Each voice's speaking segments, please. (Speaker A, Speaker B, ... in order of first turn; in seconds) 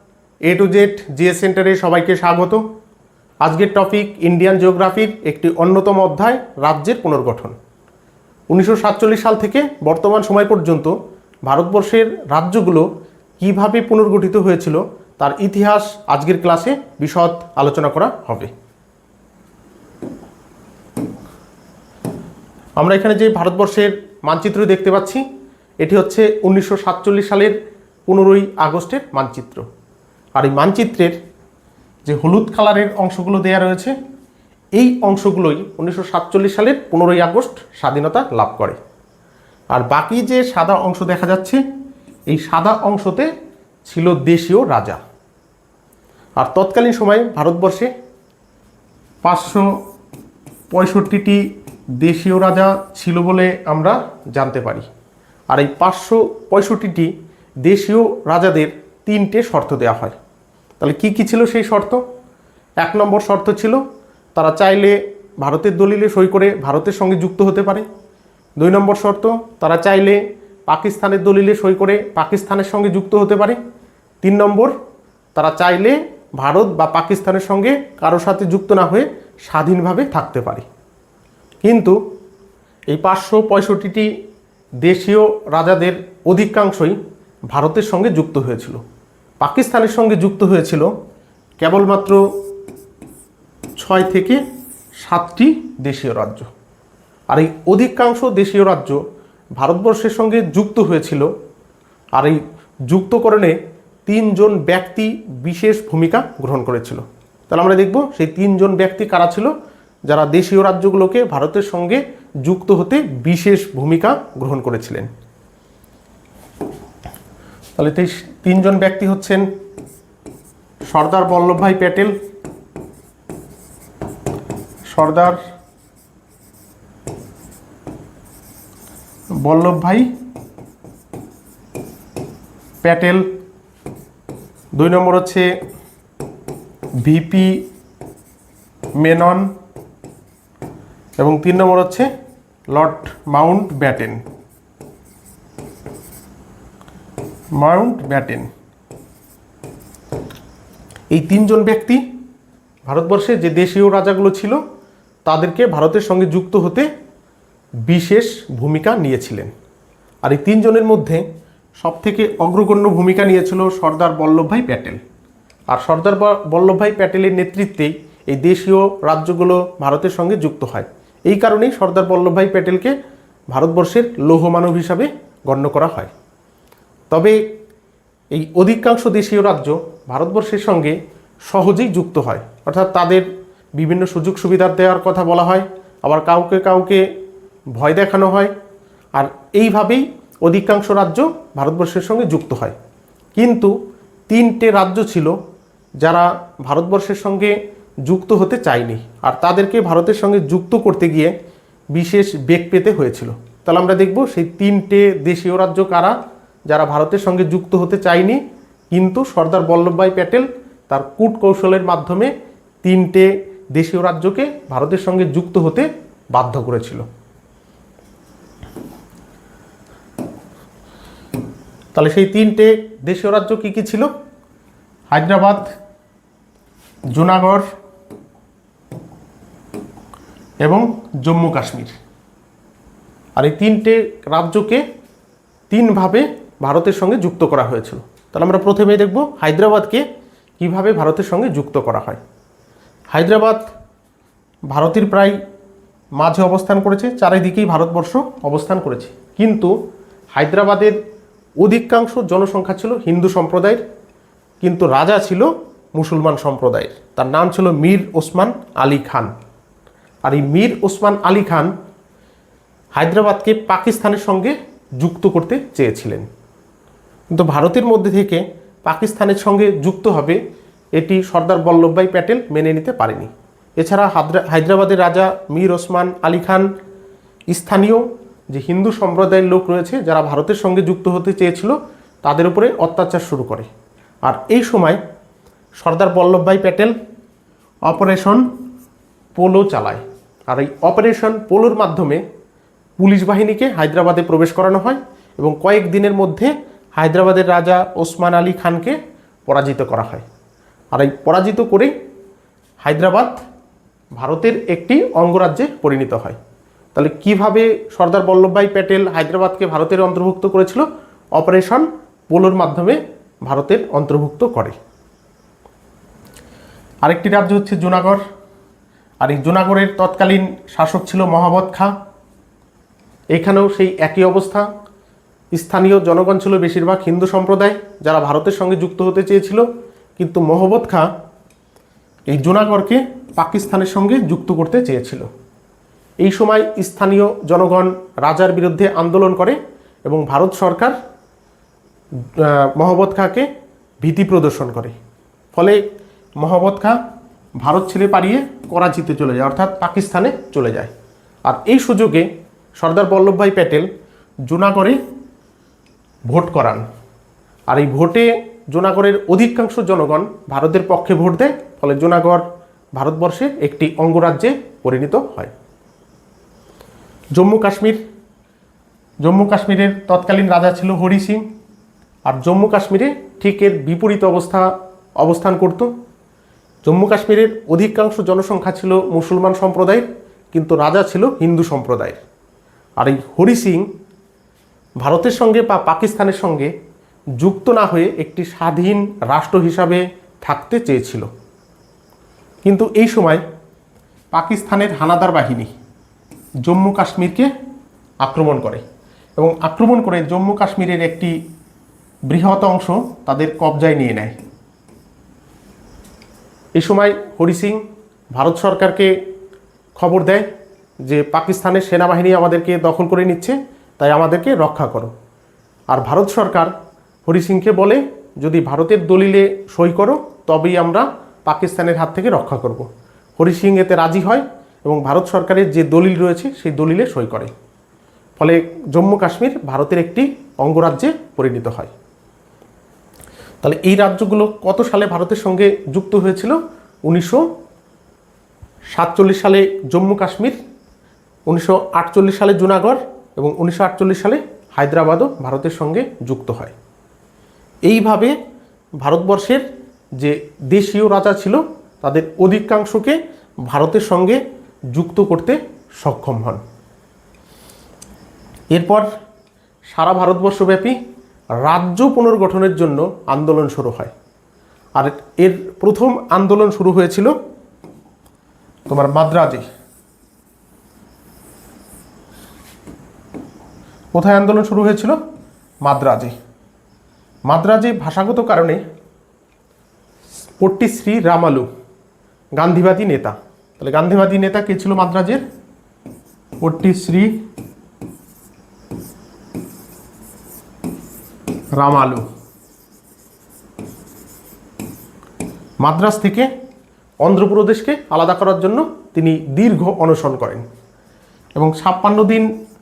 Speaker A: 0.4-2.6, 3.4-7.5, 8.5-10.9, 11.4-12.9, 13.4-18.5, 22.8-25.2, 25.8-27.6, 28.1-29.6, 30.4-31.1, 32.0-33.9, 34.8-38.8, 39.7-41.6, 42.3-43.3, 43.9-45.0, 46.4-47.9, 49.2-49.7, 50.7-51.4, 52.0-54.9, 55.5-57.1, 57.6-60.1, 60.8-62.0, 62.8-63.8, 64.3-67.9, 68.6-73.6, 74.2-74.7, 75.3-80.7, 81.6-82.0, 82.9-84.1, 84.8-87.0, 87.5-88.8, 89.4-90.9, 91.6-92.2, 93.8-94.4, 95.0-96.5, 97.3-99.0, 99.6-101.3, 102.2-109.5, 110.1-115.1, 117.8-119.5, 120.9-122.1, 124.9-125.4, 129.4-130.1, 132.8-133.2, 134.8-135.5, 137.0-137.6, 139.0-139.5, 141.2-142.1, 142.7-144.2, 147.6-148.5, 151.1-152.0, 152.9-154.6, 155.2-156.9, 157.9-159.5, 160.2-161.2, 161.8-165.0, 165.7-172.9, 173.5-176.1, 177.1-177.4, 178.3-187.0, 187.8-188.5, 189.2-192.8, 193.3-193.7, 194.3-195.4, 196.0-201.3, 201.9-206.2, 206.7-208.4, 208.9-217.1, 221.9-224.1, 225.1-225.7, 227.1-227.7, 230.6-231.9, 233.4-234.8, 235.7-240.0, 240.6-242.2, 243.1-243.7, 244.7-245.4, 246.2-249.7, 250.3-251.0, 251.6-253.8, 254.6-259.3, 260.2-261.7, 262.9-266.3, 267.3-270.4, 270.9-276.7, 277.5-283.7, 284.2-285.0, 285.8-286.9, 287.9-288.4, 289.3-292.2, 293.0-300.2, 300.9-301.9, 302.8-303.4, 304.1-306.4, 306.9-314.8, 317.0-318.2, 319.2-321.9, 323.3-324.7, 325.5-329.6, 330.2-331.1, 332.3-335.3, 336.2-340.9, 342.2-343.5, 344.0-344.9, 345.5-345.8, 346.4-347.0, 347.6-350.9, 351.4-353.9, 354.4-355.0, 356.3-356.8, 357.7-362.4, 362.9-365.5, 367.3-368.0, 369.2-371.4, 372.3-375.9, 376.8-382.2, 383.0-383.9, 385.0-386.7, 387.4-391.3, 392.6-393.4, 394.3-395.7, 396.6-397.5, 398.2-398.8, 399.4-401.3, 402.3-404.4, 406.8-407.8, 408.3-409.1, 409.9-410.5, 411.0-415.1, 415.9-416.7, 417.2-427.5, 428.4-431.9, 433.6-437.5, 438.9-440.6, 441.5-446.7, 447.9-448.3, 449.0-449.6, 450.2-454.4, 454.9-456.6, 458.7-459.1, 459.9-461.0, 461.6-464.1, 464.9-467.3, 468.9-469.6, 474.1-475.2, 475.8-476.3, 477.5-478.8, 480.6-481.7, 482.6-485.4, 486.6-487.3, 491.8-492.2, 495.8-496.5, 497.2-500.6, 501.6-502.5